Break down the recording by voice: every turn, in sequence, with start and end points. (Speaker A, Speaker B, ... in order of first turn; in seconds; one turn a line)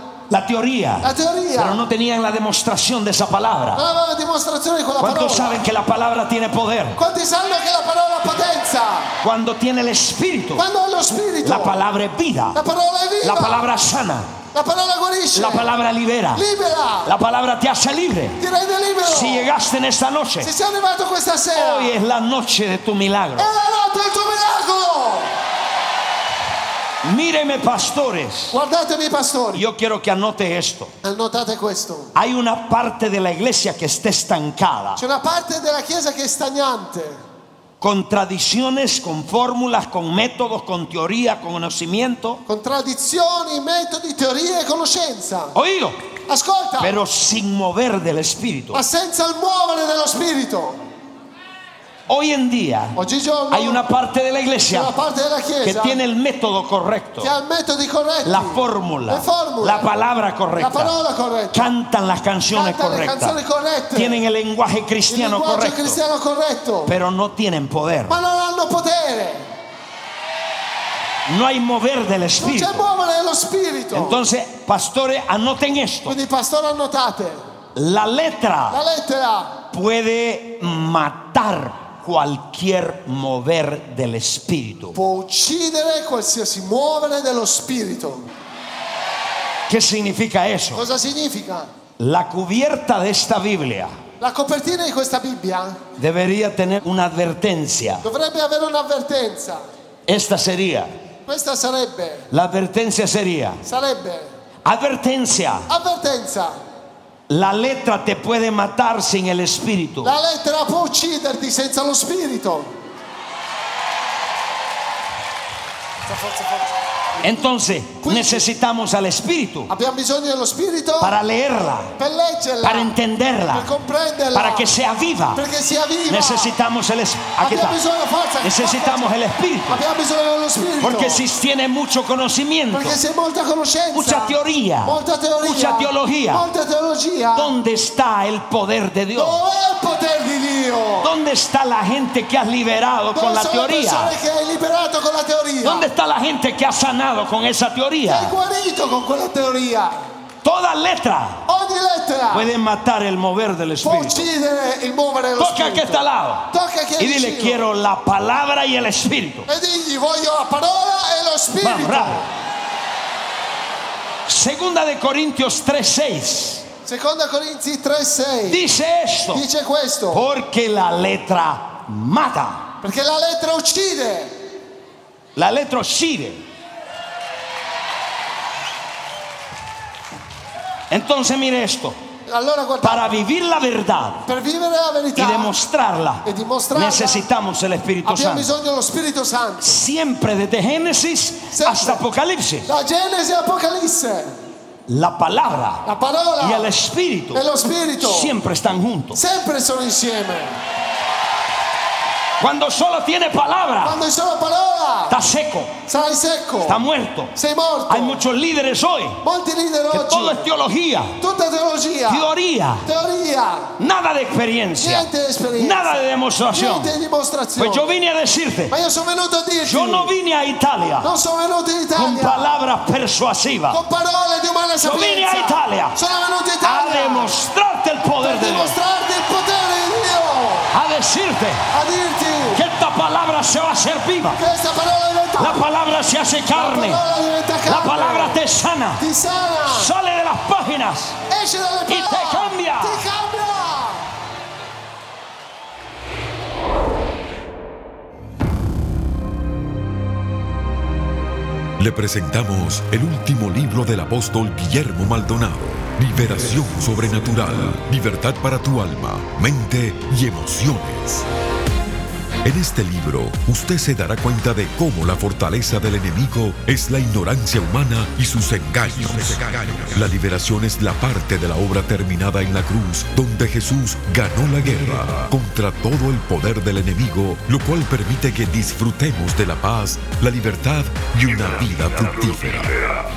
Speaker A: 0.3-3.8
Speaker B: 1.0-1.8
Speaker B: 3.7-5.6
Speaker A: 5.0-7.0
Speaker B: 7.0-9.1
Speaker A: 9.2-10.7
Speaker B: 10.6-11.8
Speaker A: 11.4-12.6
Speaker B: 12.5-13.6
Speaker A: 13.2-14.3
Speaker B: 14.5-15.7
Speaker A: 15.3-16.4
Speaker B: 16.3-17.1
Speaker A: 17.0-18.4
Speaker B: 18.4-19.5
Speaker A: 19.0-20.5
Speaker B: 20.4-21.9
Speaker A: 21.5-23.5
Speaker B: 23.4-25.3
Speaker A: 27.0-28.6
Speaker B: 28.5-29.6
Speaker A: 29.5-30.9
Speaker B: 31.0-32.1
Speaker A: 32.1-35.0
Speaker B: 35.0-37.2
Speaker A: 37.8-42.4
Speaker B: 42.5-45.5
Speaker A: 45.5-46.0
Speaker B: 46.3-47.0
Speaker A: 46.8-48.8
Speaker B: 48.7-50.8
Speaker A: 52.1-53.0
Speaker B: 53.0-53.8
Speaker A: 53.5-54.9
Speaker B: 54.7-56.0
Speaker A: 55.6-57.3
Speaker B: 57.2-59.9
Speaker A: 58.2-61.0
Speaker B: 60.5-61.6
Speaker A: 61.5-63.4
Speaker B: 62.5-64.2
Speaker A: 63.9-66.0
Speaker B: 65.1-66.9
Speaker A: 66.8-68.2
Speaker B: 68.1-69.5
Speaker A: 71.2-72.8
Speaker B: 72.4-74.2
Speaker A: 73.9-76.2
Speaker B: 76.1-77.4
Speaker A: 77.7-78.8
Speaker B: 78.7-79.6
Speaker A: 79.7-85.0
Speaker B: 84.9-88.3
Speaker A: 89.7-90.8
Speaker B: 90.7-91.7
Speaker A: 92.0-94.0
Speaker B: 94.2-95.8
Speaker A: 96.0-98.0
Speaker B: 98.0-99.6
Speaker A: 100.1-100.9
Speaker B: 101.3-102.3
Speaker A: 102.3-103.6
Speaker B: 103.6-104.3
Speaker A: 104.6-105.7
Speaker B: 105.7-106.5
Speaker A: 107.3-110.1
Speaker B: 110.0-112.7
Speaker B: 116.1-116.7
Speaker A: 117.2-119.7
Speaker B: 118.0-118.4
Speaker B: 119.7-121.2
Speaker A: 121.0-121.9
Speaker B: 122.0-122.9
Speaker A: 122.6-123.7
Speaker B: 123.5-124.7
Speaker A: 124.3-125.4
Speaker B: 125.3-126.5
Speaker A: 126.1-127.8
Speaker B: 127.4-129.1
Speaker A: 128.4-129.8
Speaker B: 129.7-131.2
Speaker A: 130.8-133.0
Speaker B: 132.7-137.5
Speaker A: 133.9-136.4
Speaker A: 137.3-139.4
Speaker B: 139.1-141.1
Speaker A: 141.0-144.1
Speaker B: 143.1-145.9
Speaker A: 145.6-148.3
Speaker B: 148.1-150.1
Speaker A: 150.4-151.4
Speaker B: 151.5-152.5
Speaker A: 152.3-154.3
Speaker B: 153.8-157.6
Speaker A: 155.4-159.5
Speaker B: 159.5-162.3
Speaker A: 161.6-162.2
Speaker A: 164.2-166.7
Speaker B: 166.8-168.6
Speaker A: 168.5-169.4
Speaker B: 169.3-170.2
Speaker A: 170.1-172.7
Speaker B: 172.8-174.3
Speaker A: 175.3-176.4
Speaker A: 180.9-182.0
Speaker B: 182.3-183.2
Speaker A: 182.8-184.3
Speaker B: 184.2-185.5
Speaker A: 185.2-188.5
Speaker B: 186.2-187.2
Speaker B: 188.0-189.8
Speaker A: 189.6-192.7
Speaker B: 191.5-192.0
Speaker B: 192.6-194.3
Speaker A: 194.9-195.8
Speaker B: 195.8-196.7
Speaker A: 196.4-197.4
Speaker B: 197.3-198.3
Speaker A: 198.0-199.2
Speaker B: 199.1-200.5
Speaker A: 202.4-204.0
Speaker B: 203.8-205.2
Speaker A: 205.1-205.7
Speaker B: 205.8-206.8
Speaker A: 206.6-207.3
Speaker B: 207.3-208.2
Speaker A: 207.9-209.2
Speaker B: 209.2-210.5
Speaker A: 209.9-211.2
Speaker B: 211.2-212.3
Speaker A: 212.1-212.9
Speaker B: 212.8-213.7
Speaker A: 213.8-216.9
Speaker B: 214.8-218.0
Speaker A: 217.6-218.7
Speaker B: 218.7-220.1
Speaker A: 219.6-221.1
Speaker B: 221.0-222.5
Speaker A: 221.9-223.8
Speaker B: 223.7-227.4
Speaker A: 224.8-226.0
Speaker A: 226.6-228.8
Speaker B: 228.2-230.7
Speaker A: 230.7-231.7
Speaker B: 231.7-232.6
Speaker A: 232.5-234.4
Speaker B: 234.3-235.6
Speaker A: 235.4-237.0
Speaker B: 236.5-238.4
Speaker A: 237.7-239.0
Speaker B: 239.0-239.9
Speaker A: 239.7-241.2
Speaker B: 241.3-244.0
Speaker A: 241.9-243.0
Speaker C: 251.8-261.3
Speaker C: 262.4-282.8